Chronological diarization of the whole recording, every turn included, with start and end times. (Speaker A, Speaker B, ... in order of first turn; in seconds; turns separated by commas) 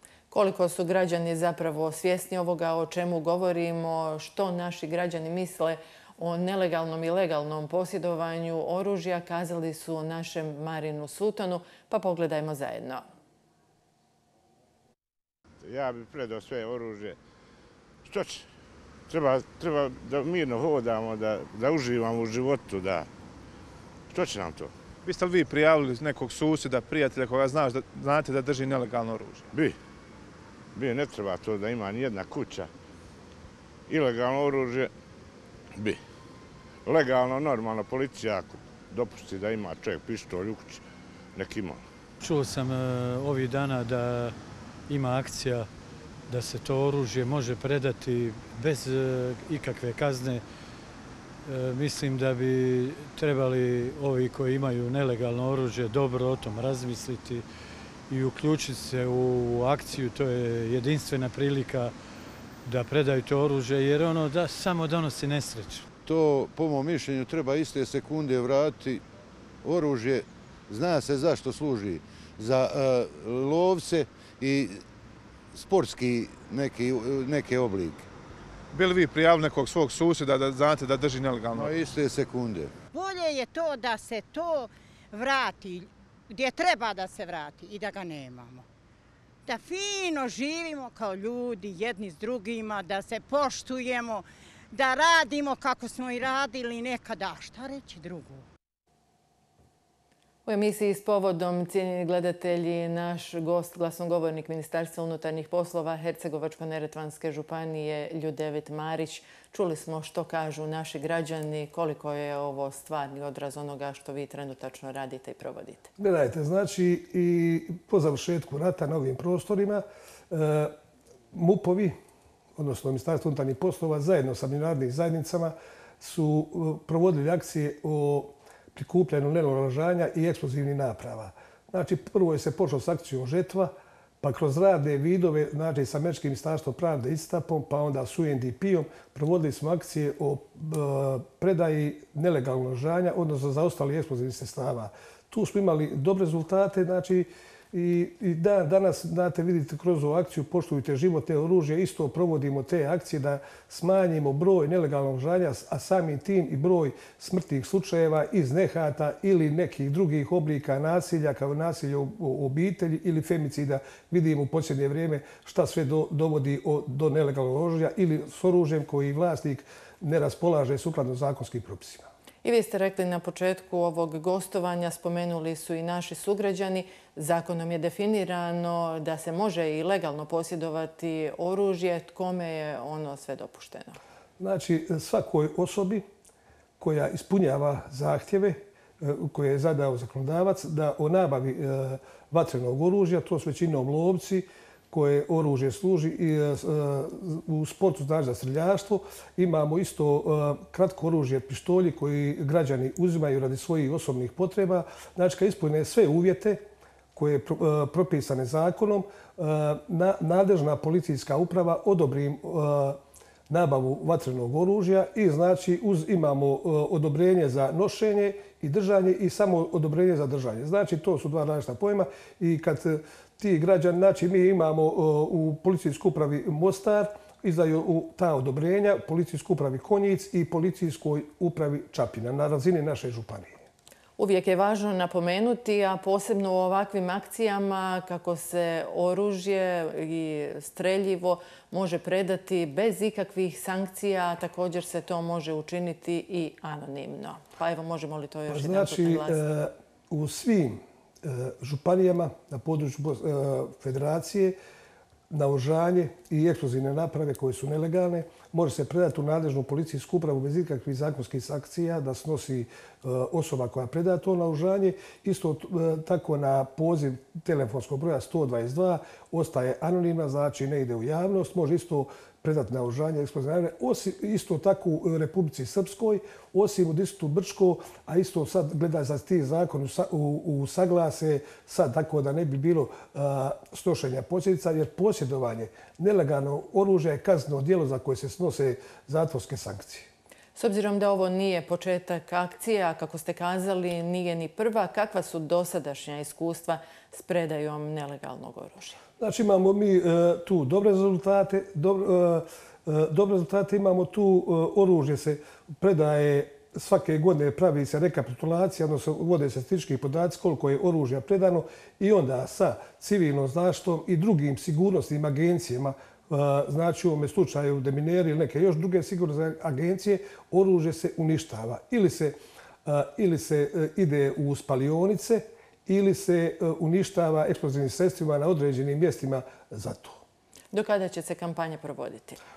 Speaker A: 0.3-13.0, Speaker B: 15.6-17.2, Speaker B: 18.1-18.4, Speaker B: 19.1-23.1, Speaker B: 24.1-24.7, Speaker C: 25.0-29.5, Speaker B: 30.7-32.7, Speaker B: 33.9-34.9, Speaker B: 36.8-40.8, Speaker B: 41.4-41.8, Speaker D: 42.2-44.4, Speaker D: 44.9-45.7, Speaker D: 46.3-50.4, Speaker D: 51.5-57.4, Speaker D: 58.1-61.9, Speaker D: 62.6-65.8, Speaker E: 66.0-69.0, Speaker E: 69.6-74.8, Speaker E: 75.5-78.1, Speaker C: 78.7-81.7, Speaker E: 81.5-82.7, Speaker F: 82.9-88.7, Speaker F: 89.5-98.4, Speaker A: 100.4-115.9, Speaker G: 116.0-120.7, Speaker G: 121.3-121.9, Speaker G: 122.6-172.1, Speaker A: 172.4-184.0, Speaker G: 184.4-186.0, Speaker G: 186.8-206.6, Speaker G: 207.1-213.0, Speaker G: 213.5-233.5, Speaker A: 234.2-249.4, Speaker G: 248.5-254.5, Speaker G: 255.3-290.1, Speaker A: 290.5-299.0, Speaker G: 299.2-322.3, Speaker G: 322.9-330.2, Speaker A: 330.7-332.4